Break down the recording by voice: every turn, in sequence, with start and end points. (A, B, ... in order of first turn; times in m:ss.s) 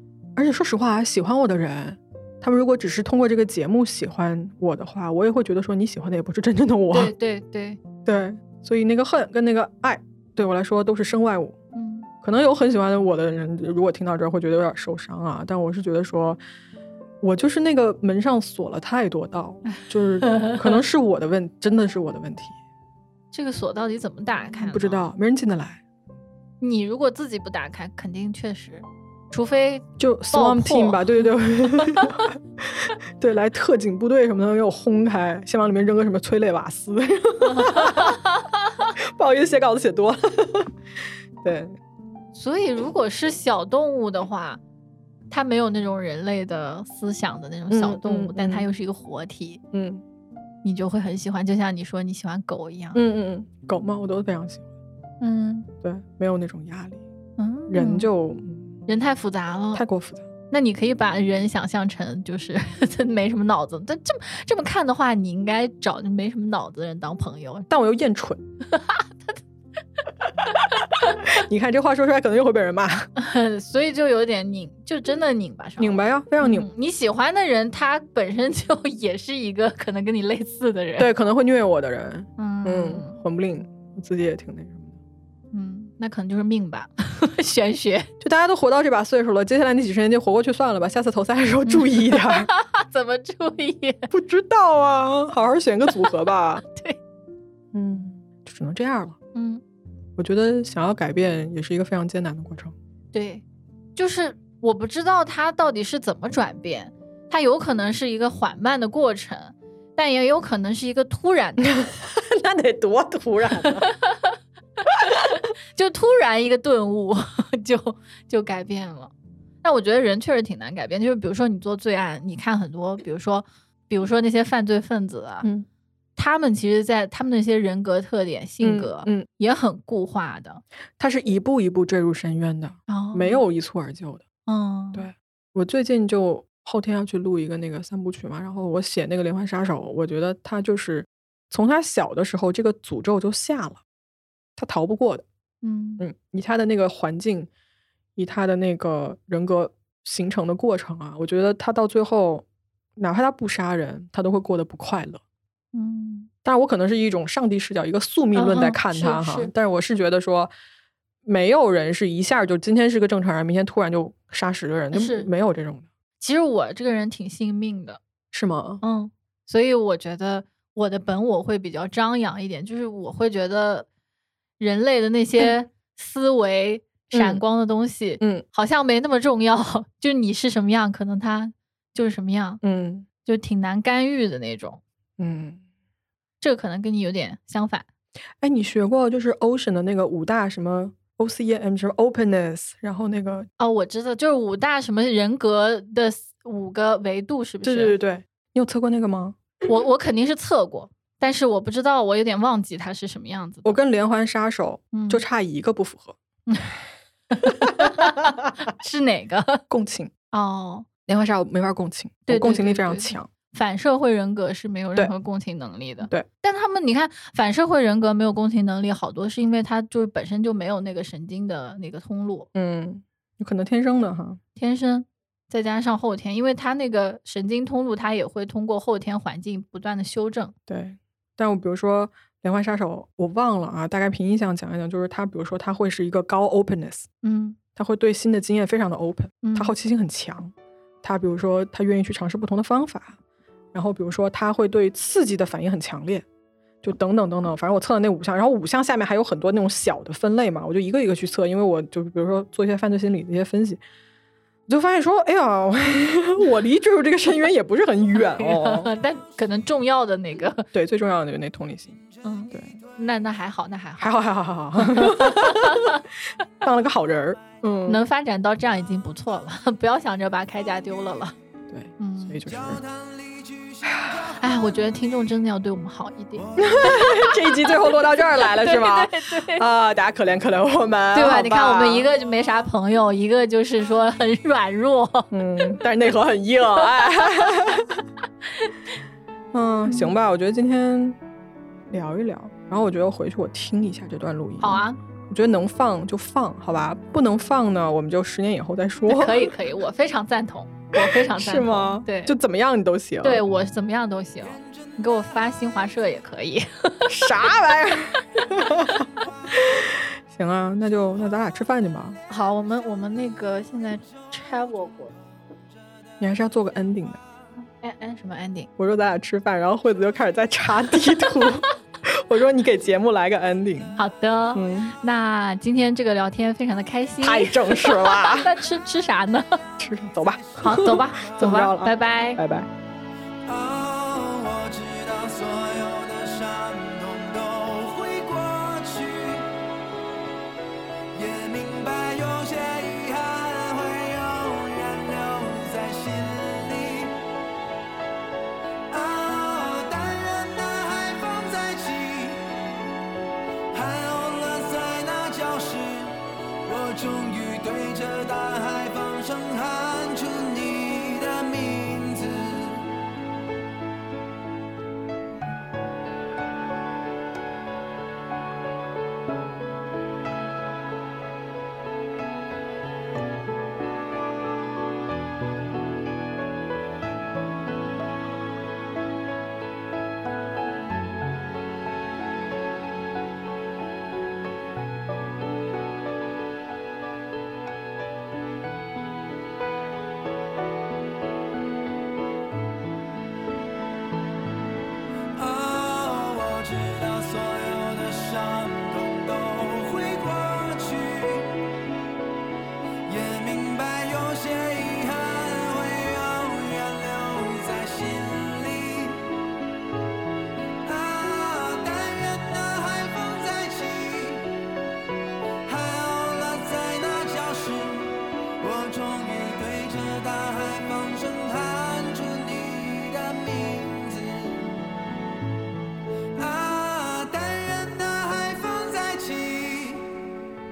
0:00.4-0:07.1 A
0:06.9-0:07.8 B
0:08.0-0:11.6 A
0:11.8-0:12.1 B
0:12.2-0:16.4 A
0:17.2-0:22.6 A
0:20.2-0:20.7 B
0:23.3-0:25.1 B
0:24.6-0:25.8 A
0:26.6-0:32.3 B
0:30.0-0:38.2 A
0:37.4-0:38.9 B
0:39.0-0:40.7 A
0:41.4-0:41.8 A
0:42.3-0:44.6 B
0:45.3-0:49.6 B
0:47.7-0:48.7 A
0:49.7-0:50.0 A
0:50.6-0:53.0 B
0:53.0-0:54.7 A
0:55.2-0:55.7 B
0:55.8-0:57.0 A
0:57.4-0:58.1 B
0:57.7-0:58.8 A
0:58.9-0:59.8 B
0:59.8-1:00.3 A
1:00.5-1:07.7 B
1:07.7-1:08.4 A
1:08.7-1:09.4 B
1:11.0-1:13.1 A
1:13.2-1:21.1 B
1:15.8-1:16.7 A
1:21.0-1:25.0 A
1:22.4-1:23.2 B
1:25.5-1:28.1 B
1:28.2-1:32.5 A
1:31.7-1:34.1 B
1:34.1-1:36.6 A
1:36.7-1:37.0 B
1:37.7-1:39.2 A
1:39.3-1:39.6 B
1:40.2-1:42.8 A
1:43.1-1:43.4 B
1:44.0-1:51.8 B
1:51.6-1:53.9 A
1:53.9-1:54.4 B
1:55.1-1:59.1 B
1:59.6-2:05.5 B
2:06.2-2:10.6 B
2:08.6-2:09.3 A
2:11.0-2:14.2 A
2:12.9-2:13.4 B
2:14.5-2:15.1 B
2:14.9-2:23.8 A
2:24.6-2:25.3 A
2:25.6-2:26.0 B
2:26.0-2:27.5 A
2:28.2-2:32.5 A
2:33.0-2:35.2 A
2:35.7-2:36.3 B
2:36.4-2:40.5 A
2:38.4-2:39.5 B
2:41.2-2:45.9 A
2:44.9-2:45.3 B
2:46.2-2:48.0 B
2:48.3-2:48.8 A
2:48.8-2:53.9 B
2:54.6-3:02.6 B
2:57.1-2:57.4 A
3:02.6-3:03.1 A
3:03.2-3:04.8 B
3:05.2-3:05.6 A
3:06.4-3:07.9 B
3:08.4-3:13.5 A
3:13.6-3:18.0 B
3:17.6-3:19.4 A
3:19.7-3:23.8 B
3:23.6-3:26.2 A
3:24.9-3:25.2 B
3:27.3-3:29.6 B
3:27.4-3:28.5 A
3:29.7-3:30.1 A
3:30.3-3:30.9 B
3:31.1-3:33.3 A
3:32.3-3:42.5 B
3:42.6-3:44.4 A
3:44.6-3:50.6 B
3:50.7-3:57.1 A
3:57.2-3:57.6 B
3:57.8-4:03.2 A
3:59.4-3:59.7 B
4:03.7-4:06.3 A
4:06.8-4:13.8 A
4:14.7-4:18.9 A
4:18.2-4:20.7 B
4:20.7-4:22.8 A
4:22.2-4:24.1 B
4:24.0-4:26.0 A
4:24.8-4:26.0 B
4:26.6-4:28.0 A
4:27.9-4:31.4 B
4:31.7-4:32.8 A
4:32.0-4:32.4 B
4:32.5-4:34.4 C
4:34.0-4:34.2 A
4:34.4-4:39.6 B
4:36.4-4:36.9 C
4:36.6-4:42.1 A
4:41.1-4:45.8 B
4:45.3-4:48.0 A
4:46.8-4:47.5 B
4:49.5-4:51.2 A
4:49.9-4:50.1 B
4:51.9-4:59.5 A
4:54.6-4:55.0 B
4:59.1-5:02.4 B
5:00.9-5:03.4 A
5:03.2-5:07.2 B
5:07.1-5:12.2 A
5:12.3-5:15.2 B
5:16.2-5:17.2 A
5:17.8-5:18.7 B
5:18.8-5:24.0 A
5:24.0-5:29.6 B
5:24.5-5:24.9 A
5:27.2-5:28.6 A
5:29.8-5:32.7 A
5:30.2-5:30.8 C
5:30.6-5:32.4 B
5:33.5-5:39.6 C
5:41.1-5:47.2 C
5:48.9-5:52.6 C
5:53.7-6:03.0 C
6:35.4-6:41.8 C
6:43.1-6:49.3 C
6:50.8-6:54.6 C
6:55.7-7:05.1 C
7:06.4-7:10.3 C